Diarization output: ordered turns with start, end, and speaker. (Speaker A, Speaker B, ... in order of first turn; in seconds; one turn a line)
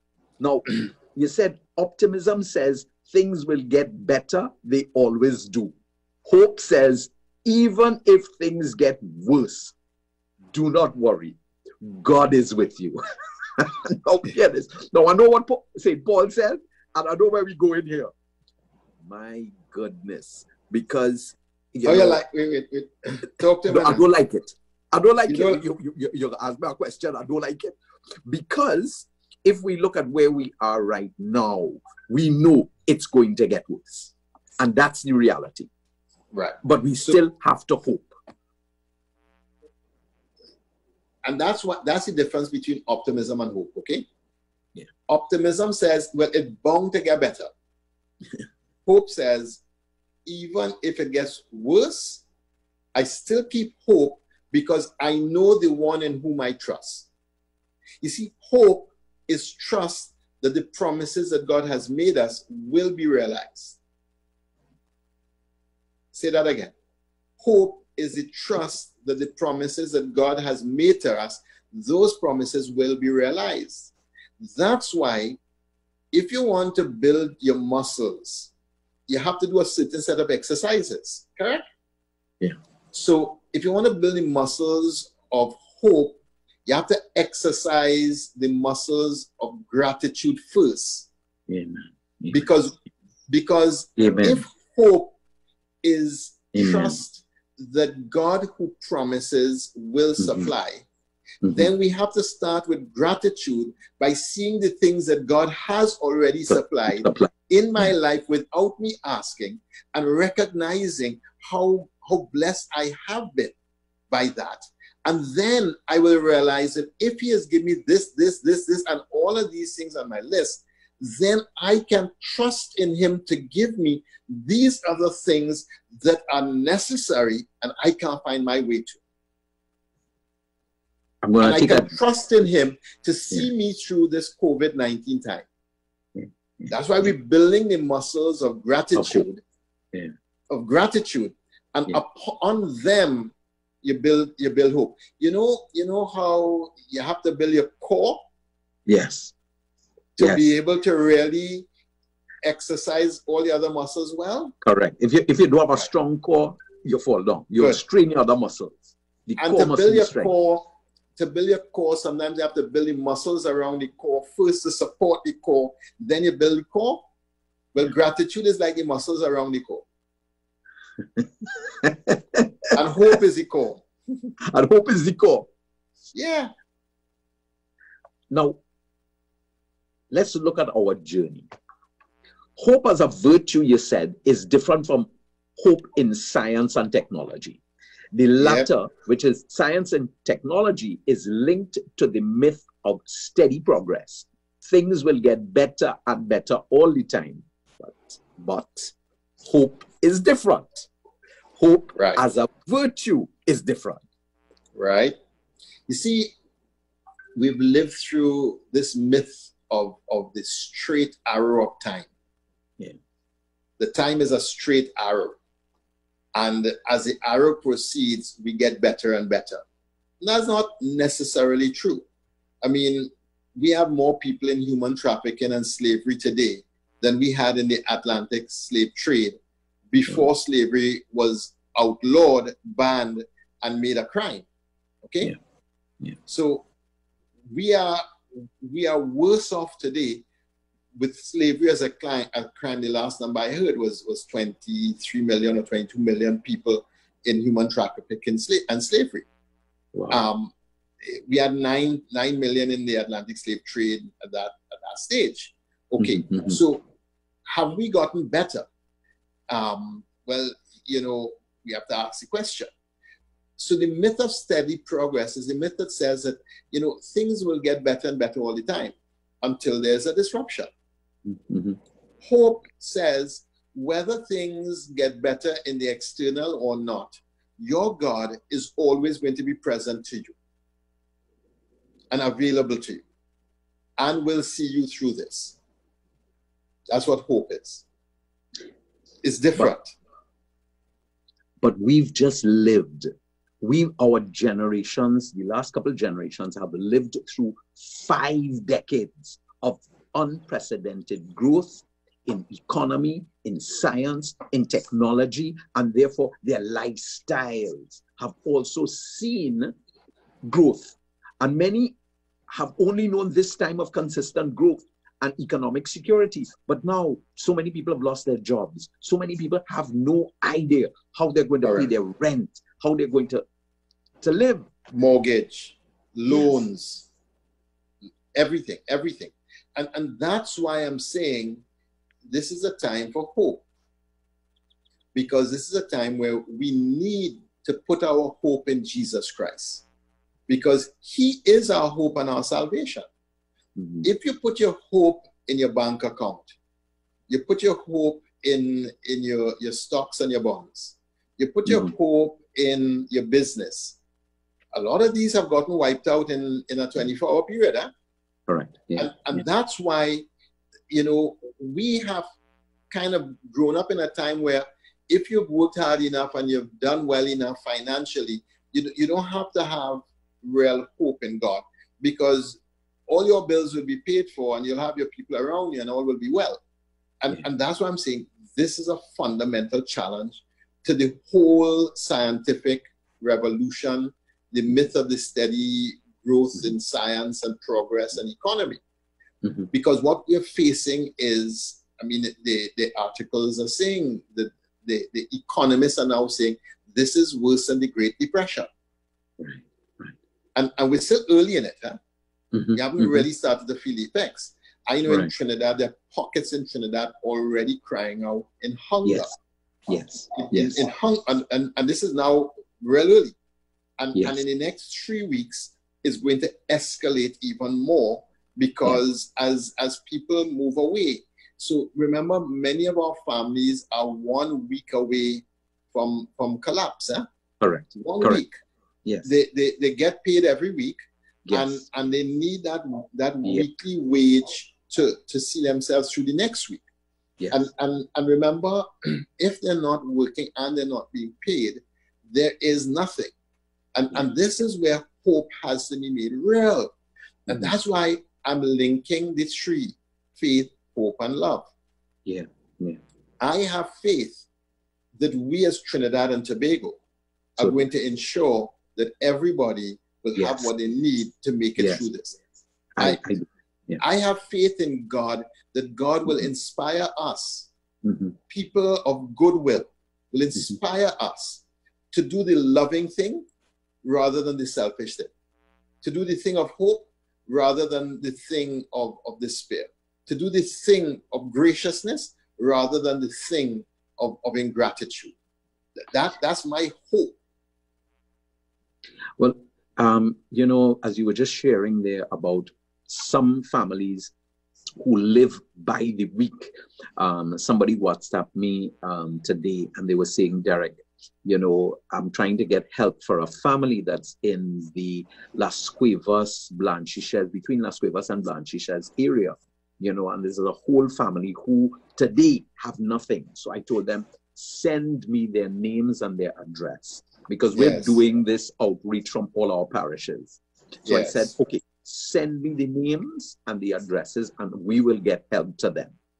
Speaker A: 0.4-5.7
Speaker A: 6.2-9.7
Speaker A: 10.5-13.0
Speaker A: 13.5-18.1
Speaker A: 19.1-22.2
Speaker B: 21.8-24.0
Speaker A: 23.7-35.7
Speaker B: 25.3-25.6
Speaker B: 36.3-37.2
Speaker A: 36.6-38.1
Speaker B: 41.2-44.0
Speaker B: 45.1-47.5
Speaker B: 48.9-49.6
Speaker B: 50.2-52.2
Speaker B: 52.9-57.1
Speaker B: 58.0-63.8
Speaker B: 66.1-66.7
Speaker B: 67.4-75.4
Speaker B: 76.1-78.5
Speaker B: 79.1-81.6
Speaker B: 82.9-91.1
Speaker A: 91.5-92.4
Speaker B: 92.3-92.7
Speaker B: 93.3-95.1
Speaker A: 94.0-94.4
Speaker B: 95.8-100.8
Speaker A: 96.5-97.0
Speaker A: 100.2-100.5
Speaker A: 101.4-101.7
Speaker B: 101.5-113.5
Speaker A: 107.0-107.3
Speaker B: 114.1-129.0
Speaker A: 131.2-131.9
Speaker B: 131.4-135.4
Speaker A: 136.2-136.7
Speaker B: 136.7-139.4
Speaker A: 138.9-139.2
Speaker B: 140.5-148.2
Speaker A: 148.9-149.3
Speaker B: 150.2-151.7
Speaker A: 150.2-150.5
Speaker B: 152.4-154.5
Speaker A: 154.6-160.3
Speaker B: 159.4-167.0
Speaker B: 167.7-169.8
Speaker A: 171.2-172.5
Speaker B: 172.7-173.9
Speaker A: 174.5-175.5
Speaker B: 176.1-176.5
Speaker A: 178.3-178.6
Speaker A: 180.1-181.5
Speaker A: 182.6-185.1
Speaker A: 185.6-187.6
Speaker A: 188.1-200.9
Speaker B: 188.4-188.7
Speaker A: 201.6-204.0
Speaker B: 204.7-205.1
Speaker B: 205.9-206.3
Speaker B: 207.3-212.1
Speaker B: 213.8-215.4
Speaker B: 216.3-219.6
Speaker B: 220.2-222.0
Speaker B: 222.6-229.4
Speaker B: 229.9-234.4
Speaker B: 235.0-235.3
Speaker B: 236.3-236.7
Speaker B: 237.5-240.2
Speaker B: 240.9-249.2
Speaker A: 249.9-250.2
Speaker B: 250.1-256.8
Speaker A: 256.0-256.6
Speaker B: 257.5-258.6
Speaker B: 259.5-262.7
Speaker B: 263.6-270.7
Speaker A: 271.2-271.8
Speaker B: 272.2-280.4
Speaker B: 282.1-283.0
Speaker B: 284.0-285.6
Speaker B: 286.9-287.8
Speaker B: 289.2-289.9
Speaker A: 291.6-309.7
Speaker A: 310.4-311.9
Speaker A: 312.5-323.4
Speaker B: 321.6-321.9
Speaker A: 324.2-324.7
Speaker B: 324.9-327.1
Speaker B: 328.3-331.6
Speaker B: 332.2-333.6
Speaker B: 335.1-339.8
Speaker B: 340.5-343.1
Speaker A: 343.8-344.1
Speaker B: 344.0-346.5
Speaker B: 347.3-354.0
Speaker A: 351.7-351.9
Speaker B: 354.7-357.9
Speaker A: 358.5-359.1
Speaker B: 358.9-360.2
Speaker B: 360.9-362.3
Speaker B: 362.9-376.6
Speaker B: 377.2-388.8
Speaker A: 389.4-389.7
Speaker B: 389.7-398.7
Speaker A: 399.4-400.1
Speaker B: 400.5-402.0
Speaker A: 402.5-403.2
Speaker B: 402.7-409.3
Speaker A: 409.0-409.3
Speaker A: 409.9-410.8
Speaker B: 410.3-413.3
Speaker B: 414.0-427.2
Speaker A: 414.1-414.4
Speaker A: 427.6-428.4
Speaker B: 427.9-428.6
Speaker B: 429.2-431.0
Speaker A: 431.5-431.8
Speaker B: 431.5-436.8
Speaker B: 437.5-443.3
Speaker B: 443.9-446.9
Speaker A: 447.5-447.7
Speaker B: 447.5-451.7
Speaker A: 452.2-453.0
Speaker B: 453.4-454.4
Speaker B: 455.2-457.0
Speaker B: 457.6-462.4
Speaker A: 460.4-460.7
Speaker A: 461.8-462.1
Speaker A: 463.0-464.0
Speaker B: 464.0-467.7
Speaker A: 468.0-468.4
Speaker B: 468.5-473.4
Speaker B: 474.0-475.3
Speaker B: 476.0-485.3
Speaker B: 486.1-487.4
Speaker A: 489.4-494.3
Speaker A: 495.0-526.1
Speaker B: 517.7-518.2
Speaker B: 521.0-521.5